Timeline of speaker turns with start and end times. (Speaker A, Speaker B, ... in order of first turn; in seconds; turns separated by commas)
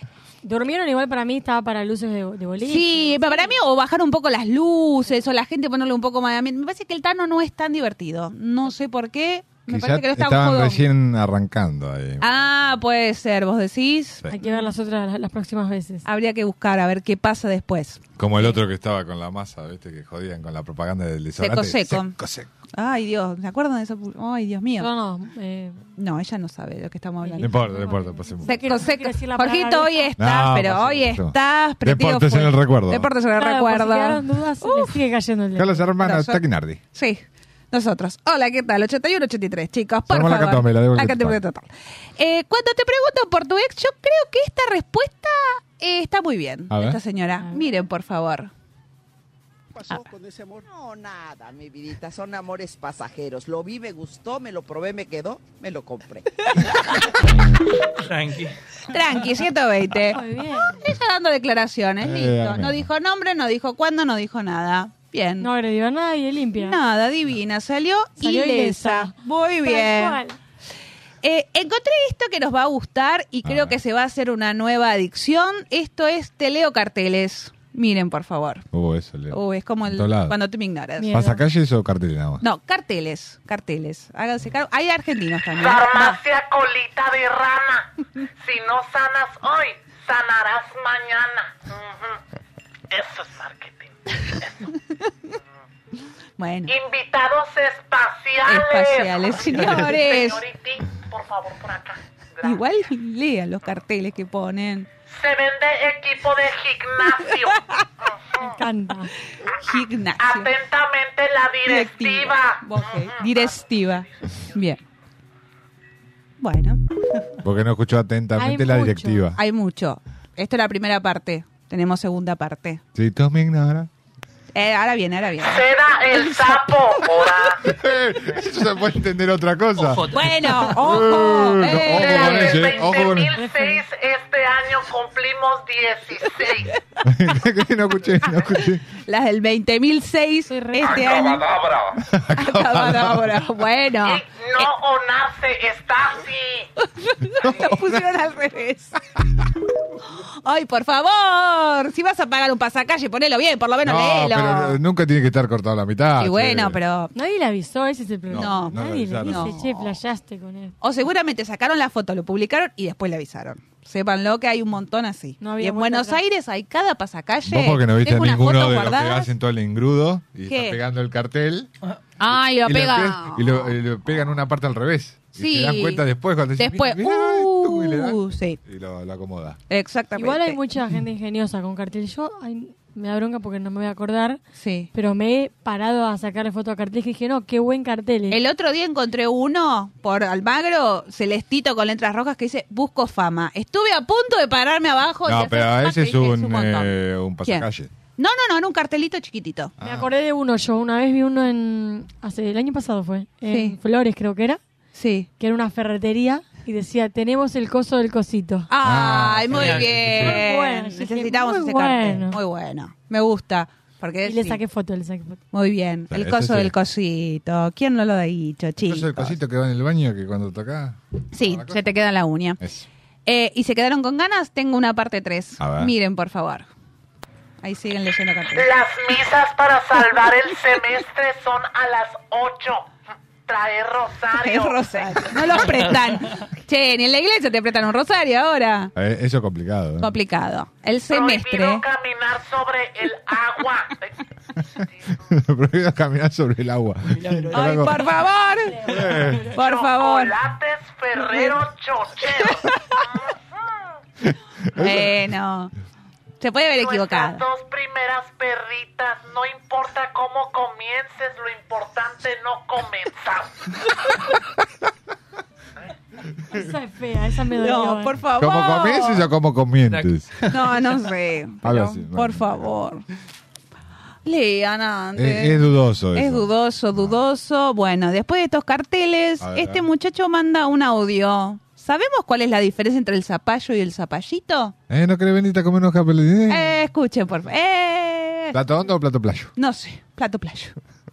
Speaker A: 0.4-3.6, Speaker B: 2.6-10.8, Speaker C: 9.7-12.8, Speaker B: 12.2-14.6, Speaker A: 14.3-16.1, Speaker B: 16.1-18.6, Speaker C: 18.2-22.5, Speaker B: 21.4-22.2, Speaker B: 22.7-24.9, Speaker A: 24.8-25.8, Speaker B: 26.0-27.5, Speaker A: 27.2-30.1, Speaker C: 27.4-28.7, Speaker B: 28.4-35.0, Speaker C: 30.2-33.1, Speaker A: 33.3-35.9, Speaker C: 35.5-36.8, Speaker B: 36.0-48.5, Speaker C: 40.1-41.4, Speaker C: 46.7-47.0, Speaker A: 47.4-47.8, Speaker D: 49.8-56.7, Speaker E: 58.0-58.5, Speaker B: 58.9-60.2, Speaker A: 60.1-60.9, Speaker B: 60.7-65.5, Speaker C: 62.0-62.9, Speaker A: 65.4-66.8, Speaker B: 66.6-70.2, Speaker A: 68.2-70.4, Speaker B: 71.2-78.7, Speaker C: 73.4-73.8, Speaker C: 78.7-80.4, Speaker B: 79.3-81.1, Speaker A: 81.0-81.4, Speaker C: 81.1-82.4, Speaker B: 82.4-86.2, Speaker F: 85.6-92.2, Speaker F: 92.9-94.7, Speaker B: 96.4-96.7, Speaker F: 96.7-102.7, Speaker B: 98.5-100.4, Speaker E: 99.5-99.9, Speaker B: 102.4-104.9, Speaker F: 105.2-107.6, Speaker A: 108.4-109.1, Speaker B: 109.6-110.5, Speaker F: 110.2-113.6, Speaker B: 111.7-114.8, Speaker B: 116.4-116.8, Speaker C: 117.4-119.4, Speaker A: 118.3-119.3, Speaker B: 119.3-122.8, Speaker C: 122.9-123.9, Speaker B: 124.5-126.6, Speaker F: 125.4-127.6, Speaker C: 127.6-133.4, Speaker E: 129.8-130.8, Speaker B: 130.0-132.7, Speaker F: 131.7-136.8, Speaker A: 133.3-133.8, Speaker C: 137.1-138.8, Speaker B: 139.1-141.5, Speaker A: 140.5-141.0, Speaker F: 140.9-141.9, Speaker C: 142.0-143.4, Speaker B: 142.4-144.7, Speaker F: 144.0-146.7, Speaker B: 146.9-149.0, Speaker C: 147.4-148.1, Speaker B: 150.4-154.8, Speaker C: 153.8-156.8, Speaker B: 156.2-157.1, Speaker A: 157.1-160.8, Speaker C: 158.3-159.6, Speaker B: 158.3-159.9, Speaker B: 160.8-169.3, Speaker A: 165.4-166.2, Speaker C: 167.5-171.7, Speaker B: 170.5-170.8, Speaker B: 172.2-173.7, Speaker C: 172.3-179.6, Speaker B: 175.4-176.0, Speaker B: 176.6-178.6, Speaker B: 179.7-180.6, Speaker A: 180.2-184.4, Speaker B: 184.6-184.9, Speaker A: 184.9-188.4, Speaker B: 188.3-199.7, Speaker C: 195.2-197.9, Speaker C: 199.8-200.1, Speaker A: 199.8-204.6, Speaker B: 203.5-203.8, Speaker B: 204.9-205.3, Speaker A: 205.4-208.7, Speaker B: 208.7-214.6, Speaker C: 208.8-210.4, Speaker E: 209.5-210.3, Speaker A: 210.2-212.4, Speaker A: 214.2-215.4, Speaker B: 215.5-219.4, Speaker C: 216.1-216.8, Speaker C: 218.8-221.8, Speaker B: 221.3-222.6, Speaker C: 222.6-222.9, Speaker B: 223.3-226.7, Speaker C: 225.6-225.9, Speaker B: 227.6-228.7, Speaker F: 228.6-232.9, Speaker F: 233.5-235.2, Speaker B: 234.4-238.9, Speaker E: 235.5-236.2, Speaker C: 238.9-240.1, Speaker B: 240.0-241.8, Speaker F: 241.1-244.2, Speaker C: 245.2-247.9, Speaker E: 247.1-247.8, Speaker B: 247.5-248.8, Speaker A: 248.7-249.5, Speaker C: 248.9-249.5, Speaker B: 249.5-250.3, Speaker F: 249.6-253.4, Speaker C: 254.8-255.1, Speaker B: 254.8-255.7, Speaker B: 256.4-257.4, Speaker F: 256.8-263.7, Speaker A: 266.5-268.2, Speaker B: 267.6-269.3, Speaker C: 268.4-270.4, Speaker E: 269.9-270.5, Speaker B: 270.5-273.0, Speaker C: 271.6-272.8, Speaker B: 274.2-284.7, Speaker C: 275.1-277.2, Speaker C: 279.4-279.9, Speaker C: 284.9-286.8, Speaker B: 286.5-288.6, Speaker C: 288.5-289.5, Speaker B: 289.6-290.8